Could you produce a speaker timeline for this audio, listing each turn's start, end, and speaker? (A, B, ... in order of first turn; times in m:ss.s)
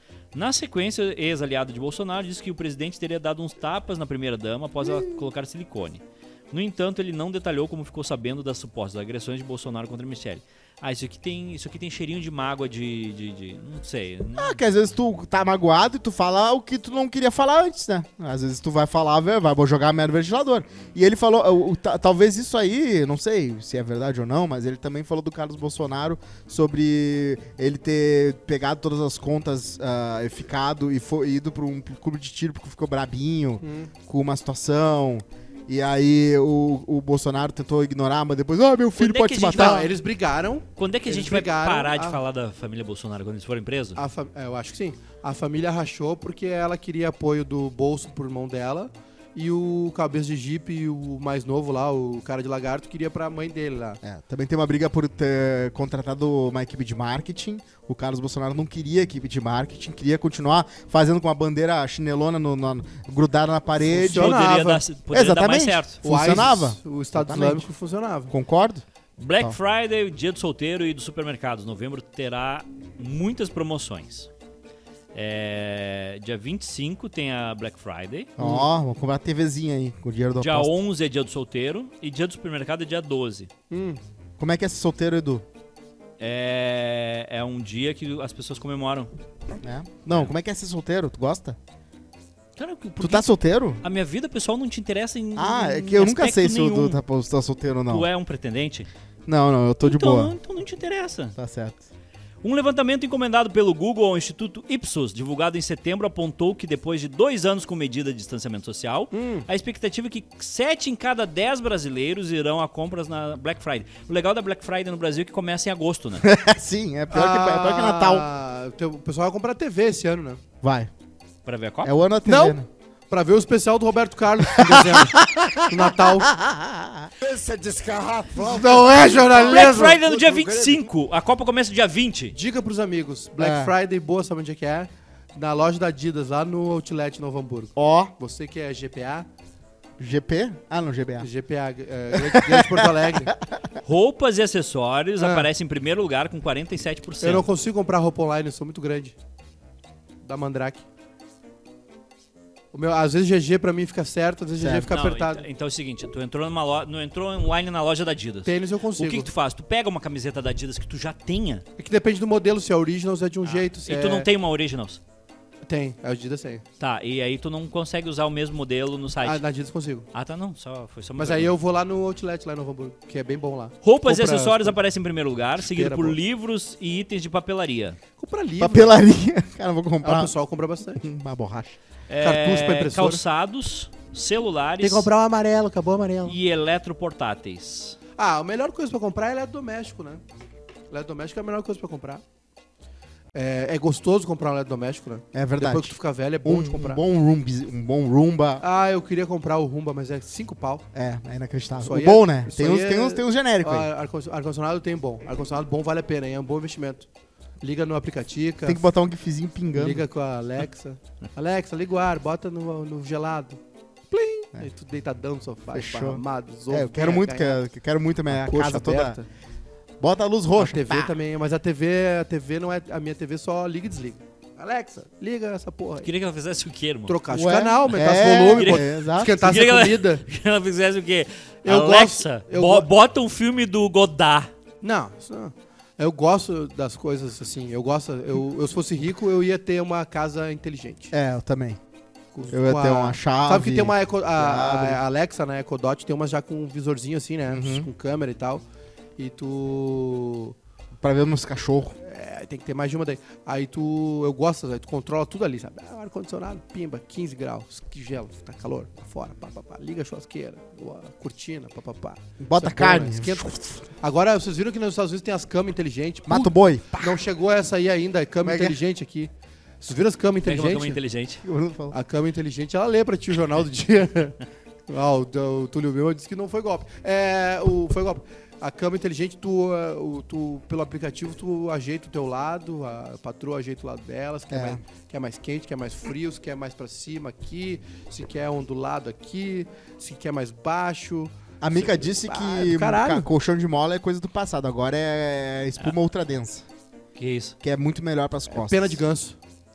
0:00.3-0:14.6 A
0:14.3-0:39.9 B
0:33.6-0:33.9 C
0:39.0-0:39.9 A
0:39.5-0:42.2 C
0:40.8-0:44.0 A
0:44.0-0:54.0 C
0:54.0-1:04.4 B
1:03.8-1:04.8 C
1:04.1-1:06.0 A
1:05.1-1:07.7 B
1:06.0-1:08.3 C
1:08.3-1:08.8 B
1:09.2-1:14.3 A
1:15.1-1:18.3 A
1:18.4-1:20.7 B
1:18.4-1:18.6 C
1:20.4-1:23.5 A
1:23.7-1:24.0 C
1:24.4-1:25.4 B
1:26.2-1:29.1 A
1:29.6-1:31.6 B
1:32.6-1:33.3 A
1:33.0-1:33.8 B
1:33.8-1:37.0 A
1:35.4-1:38.1 B
1:37.9-1:38.9 A
1:39.3-1:40.3 B
1:39.8-1:41.4 A
1:41.4-1:41.8 B
1:42.4-1:56.3 A
1:49.1-1:49.4 C
1:56.2-1:58.3 B
1:57.1-2:00.4 C
2:00.6-2:00.9 B
2:01.4-2:01.9 A
2:01.8-2:02.7 B
2:02.3-2:06.3 C
2:04.5-2:10.9 B
2:08.3-2:10.0 C
2:09.3-2:12.4 A
2:12.3-2:19.3 C
2:13.4-2:13.7 B
2:17.8-2:18.1 B
2:20.0-2:21.3 B
2:21.2-2:23.3 C
2:22.1-2:23.6 B
2:23.8-2:27.5 A
2:25.2-2:25.4 C
2:27.2-2:29.1 C
2:30.2-2:30.9 C
2:32.7-2:35.4 C
2:34.6-2:34.9 B
2:34.8-2:41.6 A
2:38.4-2:39.3 C
2:41.8-2:44.3 C
2:43.4-2:45.0 A
2:45.7-2:46.6 C
2:46.8-2:49.4 A
2:49.2-2:50.1 C
2:50.1-2:51.5 A
2:51.2-2:54.8 C
2:53.8-2:58.0 A
2:55.6-2:56.2 C
2:58.2-2:59.0 C
2:58.6-3:00.3 B
3:00.0-3:01.0 C
3:01.0-3:01.8 B
3:02.1-3:05.1 A
3:02.2-3:03.2 C
3:04.8-3:06.4 C
3:06.3-3:08.0 A
3:08.2-3:10.2 C
3:10.9-3:12.2 C
3:13.3-3:17.0 C
3:15.3-3:18.6 B
3:18.6-3:20.8 C
3:21.0-3:23.9 B
3:21.8-3:27.1 C
3:27.6-3:28.8 C
3:28.6-3:30.0 B
3:29.7-3:37.6 C
3:35.7-3:39.2 B
3:38.3-3:39.3 C
3:40.0-3:41.1 B
3:40.6-3:46.1 C
3:46.0-3:47.2 A
3:47.1-3:50.2 C
3:47.3-3:49.3 B
3:48.5-3:54.5 A
3:51.6-3:52.9 C
3:54.8-4:01.1 C
4:01.1-4:01.8 B
4:02.3-4:08.6 C
4:02.5-4:05.0 B
4:07.5-4:07.9 B
4:09.2-4:10.6 C
4:11.0-4:12.0 B
4:12.0-4:31.0 C
4:22.4-4:23.8 B
4:26.3-4:27.2 B
4:28.4-4:28.8 B
4:30.4-4:31.4 A
4:31.4-4:32.0 B
4:31.9-4:53.3 C
4:44.5-4:44.8 B
4:51.6-4:56.6 B
4:57.2-4:57.6 A
4:57.6-4:59.0 B
4:58.5-4:59.4 C